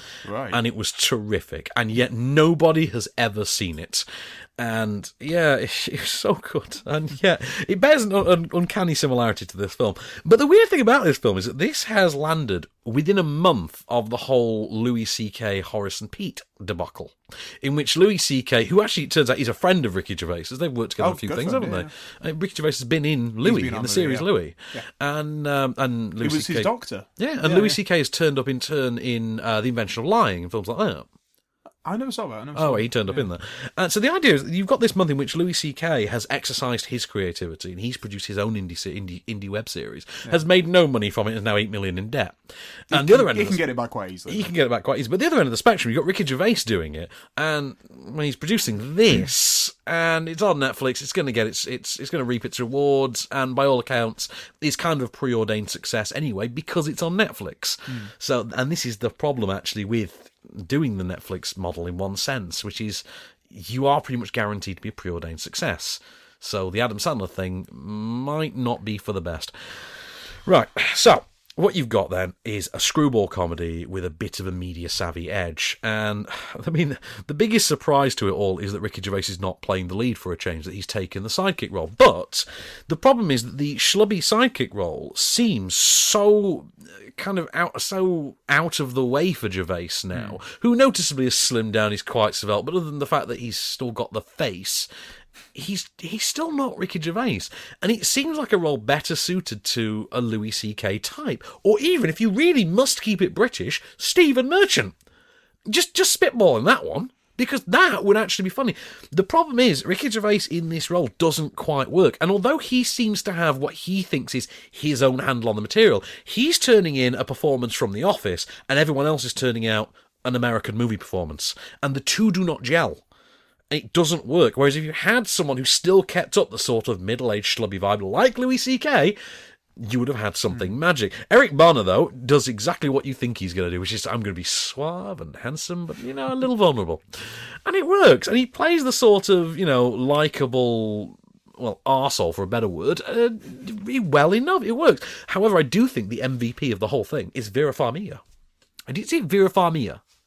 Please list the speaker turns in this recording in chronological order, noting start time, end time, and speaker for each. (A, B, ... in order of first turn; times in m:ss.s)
0:00.2-0:00.6 A
0:00.5-0:04.0 B
0:04.6-0:31.1 B
0:21.0-0:21.9 A
0:23.4-0:24.9 A
0:26.2-0:27.8 A
0:31.8-0:33.3 A
0:32.6-0:42.4 B
0:42.9-0:43.6 B
0:42.9-0:44.5 A
0:44.3-1:34.9 B
1:30.1-1:30.4 A
1:35.5-1:44.9 B
1:45.7-2:03.0 B
2:03.7-2:09.2 B
2:09.8-2:28.2 B
2:28.9-2:30.0 B